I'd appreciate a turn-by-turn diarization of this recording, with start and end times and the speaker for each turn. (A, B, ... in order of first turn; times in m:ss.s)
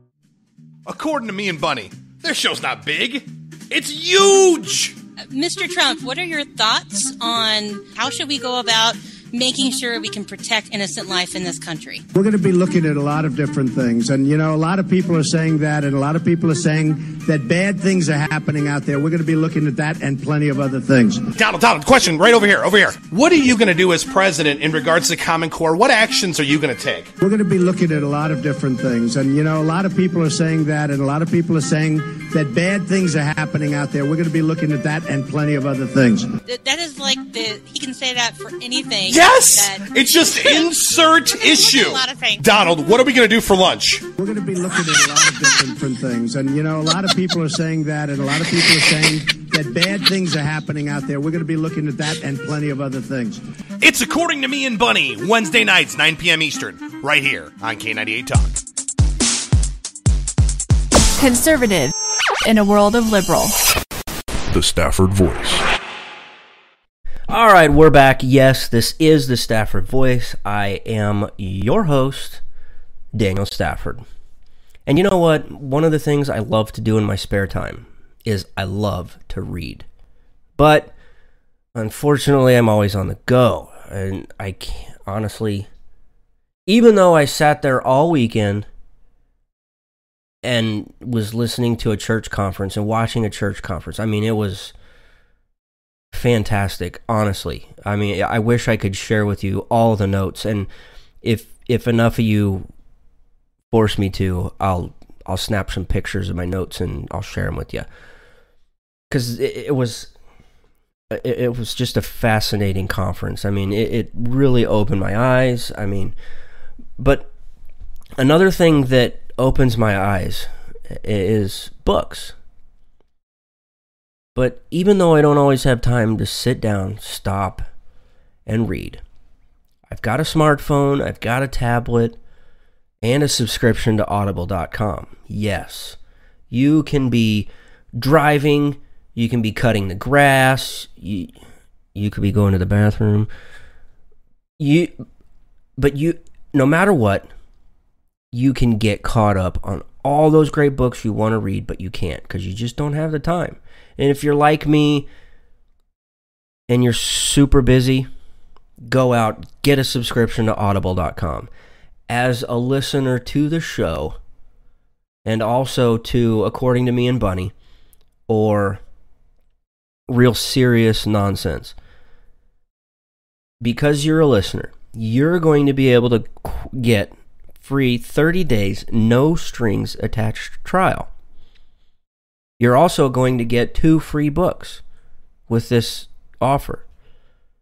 0:00.9-0:05.0 A
0:05.3-0:12.0 B
0:12.1-0:21.3 C
0:21.4-0:27.1 A
0:27.2-0:36.3 C
0:36.5-0:42.5 B
0:39.1-0:44.0 A
0:44.2-0:53.4 C
0:53.8-0:58.6 A
1:01.2-1:01.9 D
1:02.4-1:03.6 D
1:07.3-1:12.4 E
1:13.1-1:14.0 E
1:14.9-1:19.9 E
1:20.6-1:20.9 E
1:21.8-1:25.7 E
1:26.7-1:28.7 E
1:30.4-1:34.7 E
1:36.1-1:40.7 E
1:41.2-1:42.7 E
1:43.7-1:47.9 E
1:49.1-1:50.1 E
1:51.1-1:56.2 E
1:57.0-1:57.3 E
1:58.2-2:02.4 E
2:04.4-2:07.7 E
2:08.5-2:09.0 E
2:09.9-2:12.2 E
2:13.0-2:16.0 E
2:16.5-2:21.4 E
2:22.0-2:23.3 E
2:24.6-2:24.9 E
2:25.8-2:27.3 E
2:28.3-2:35.1 E
2:36.7-2:38.1 E
2:38.8-2:41.5 E
2:42.1-2:44.2 E
2:45.2-2:47.5 E
2:48.3-2:48.8 E
2:50.1-2:51.8 E
2:53.6-3:01.1 E
3:02.6-3:04.8 E
3:05.5-3:06.8 E